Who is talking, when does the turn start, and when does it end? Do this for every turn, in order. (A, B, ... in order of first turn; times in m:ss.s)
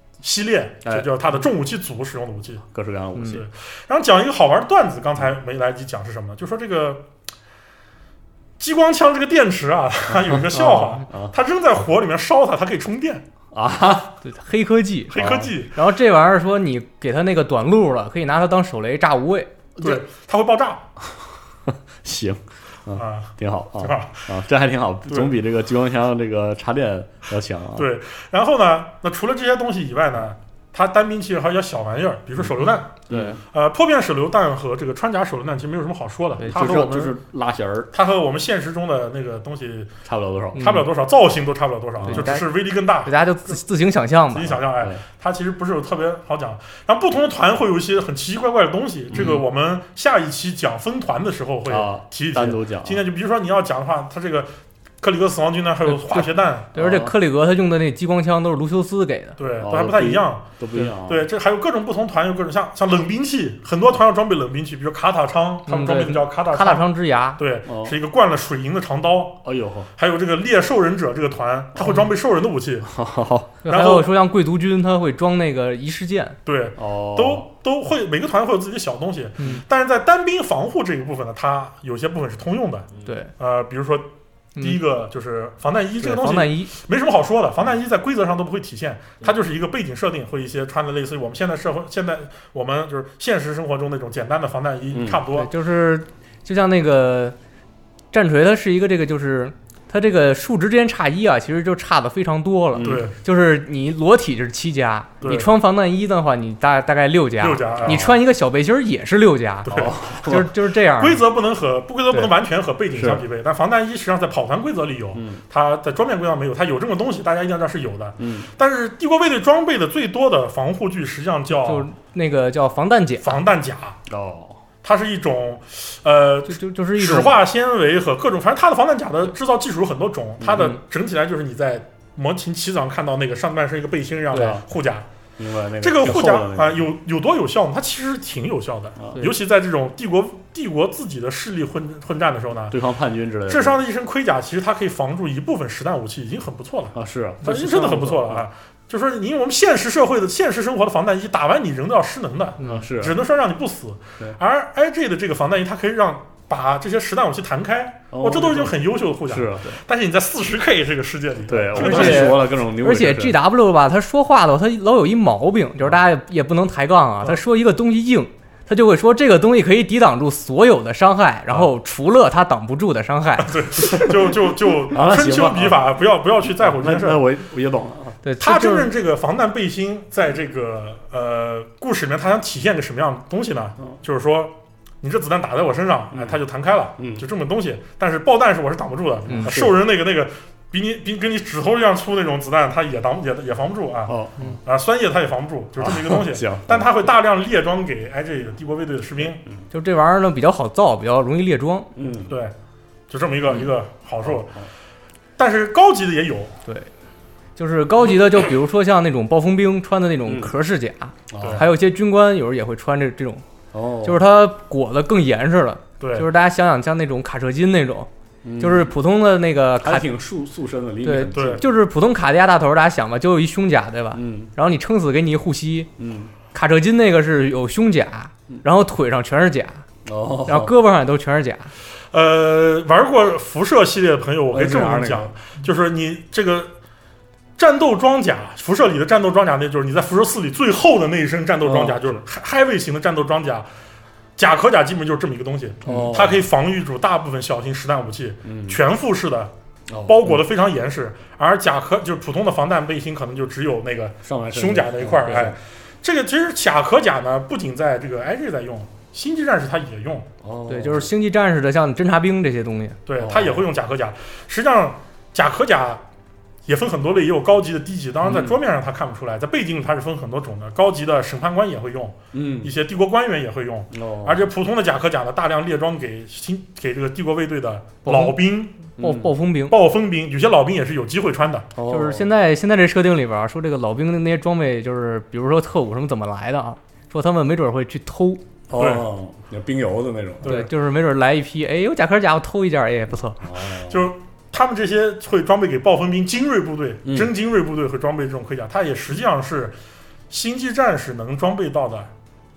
0:00.2-0:02.6 A
0:00.8-0:01.1 B
0:02.7-0:03.5 B
0:03.2-0:07.0 A
0:08.6-0:13.2 A
0:10.1-0:11.3 B
0:10.6-0:11.0 C
0:13.5-0:14.1 B
0:14.2-0:19.5 C
0:15.1-0:15.7 A
0:15.1-0:15.5 B
0:19.8-0:20.0 B
0:19.8-0:20.9 A
0:21.7-0:27.9 B
0:22.9-0:24.3 A
0:25.1-0:25.3 A
0:27.8-0:37.1 A
0:33.1-0:33.4 B
0:36.4-0:37.9 B
0:36.4-0:37.1 C
0:37.9-0:39.9 A
0:40.0-0:40.6 B
0:40.6-0:40.8 C
0:40.6-0:43.6 A
0:42.0-0:42.3 B
0:42.1-0:44.6 C
0:44.3-0:56.7 A
0:44.7-0:45.0 B
0:49.1-0:49.4 B
0:51.7-0:53.0 B
0:55.8-0:59.4 C
0:56.7-0:57.1 B
0:59.4-1:09.4 A
0:59.6-1:01.3 B
1:05.7-1:07.4 C
1:07.7-1:08.0 B
1:09.4-1:09.9 B
1:10.0-1:12.9 A
1:12.8-1:13.6 B
1:13.6-1:16.4 C
1:13.7-1:14.1 A
1:16.4-1:35.5 A
1:16.8-1:17.4 B
1:23.0-1:23.3 C
1:26.0-1:26.7 C
1:34.9-1:35.2 B
1:35.3-1:37.4 C
1:38.1-1:51.2 C
1:42.8-1:43.1 B
1:42.8-1:43.2 A
1:45.2-1:45.5 A
1:47.4-1:48.1 A
1:49.6-1:49.9 A
1:49.7-1:50.5 B
1:51.0-2:01.9 A
1:52.9-1:53.2 B
1:55.1-1:55.4 B
1:58.2-1:58.5 B
2:01.5-2:03.4 C
2:03.2-2:04.0 A
2:04.1-2:04.6 B
2:04.8-2:15.0 A
2:06.5-2:07.4 C
2:10.4-2:10.7 B
2:14.3-2:14.6 C
2:15.4-2:16.9 B
2:15.8-2:22.8 A
2:22.7-2:23.8 B
2:23.5-2:42.4 A
2:26.9-2:28.4 B
2:32.6-2:32.8 C
2:32.6-2:33.2 B
2:38.1-2:39.8 B
2:41.5-2:43.4 B
2:41.8-2:53.5 C
2:53.4-2:57.2 A
2:53.9-2:54.3 B
2:54.8-2:55.8 B
2:56.6-2:58.2 B
2:58.2-2:58.9 C
2:58.4-3:19.4 A
3:06.1-3:06.4 B
3:07.0-3:07.2 B
3:09.3-3:09.8 B
3:09.3-3:09.6 C
3:14.1-3:14.6 B
3:15.8-3:16.9 B
3:19.7-3:21.9 C
3:21.9-3:22.3 B
3:22.3-3:22.5 A
3:23.1-3:24.6 A
3:24.2-3:24.7 B
3:25.4-3:26.6 A
3:27.6-3:33.4 C
3:30.2-3:30.5 B
3:31.3-3:31.6 B
3:31.4-3:31.6 A
3:33.7-3:34.2 B
3:34.0-3:38.1 C
3:36.0-3:36.3 A
3:38.4-3:38.9 B
3:38.6-3:40.1 C
3:39.8-3:41.6 B
3:41.0-3:45.9 C
3:41.3-3:41.7 A
3:44.1-3:44.5 B
3:46.0-3:46.3 B
3:46.5-3:49.8 C
3:50.0-3:50.8 B
3:50.5-3:51.7 C
3:52.1-3:56.7 A
3:54.5-3:55.3 B
3:57.6-4:03.7 A
4:01.6-4:02.2 B
4:04.4-4:09.5 A
4:05.8-4:06.5 B
4:08.4-4:08.8 B
4:09.9-4:10.4 B
4:10.0-4:20.3 A
4:14.2-4:15.6 B
4:20.4-4:21.1 B
4:20.7-4:23.0 C
4:23.0-4:26.0 A
4:23.2-4:23.6 B
4:26.7-4:38.8 A
4:28.2-4:28.6 B
4:32.3-4:32.7 B
4:33.9-4:34.4 B
4:38.0-4:38.4 C
4:39.0-4:39.8 C
4:39.0-4:39.3 B
4:39.7-4:41.7 A
4:41.7-4:42.3 B
4:41.9-4:48.4 C
4:48.7-4:50.5 B
4:48.8-4:49.0 A
4:50.4-4:50.7 A
4:50.4-4:53.4 C
4:53.4-4:54.1 B
4:53.9-4:59.7 A
4:57.0-4:57.3 B
5:00.3-5:02.1 A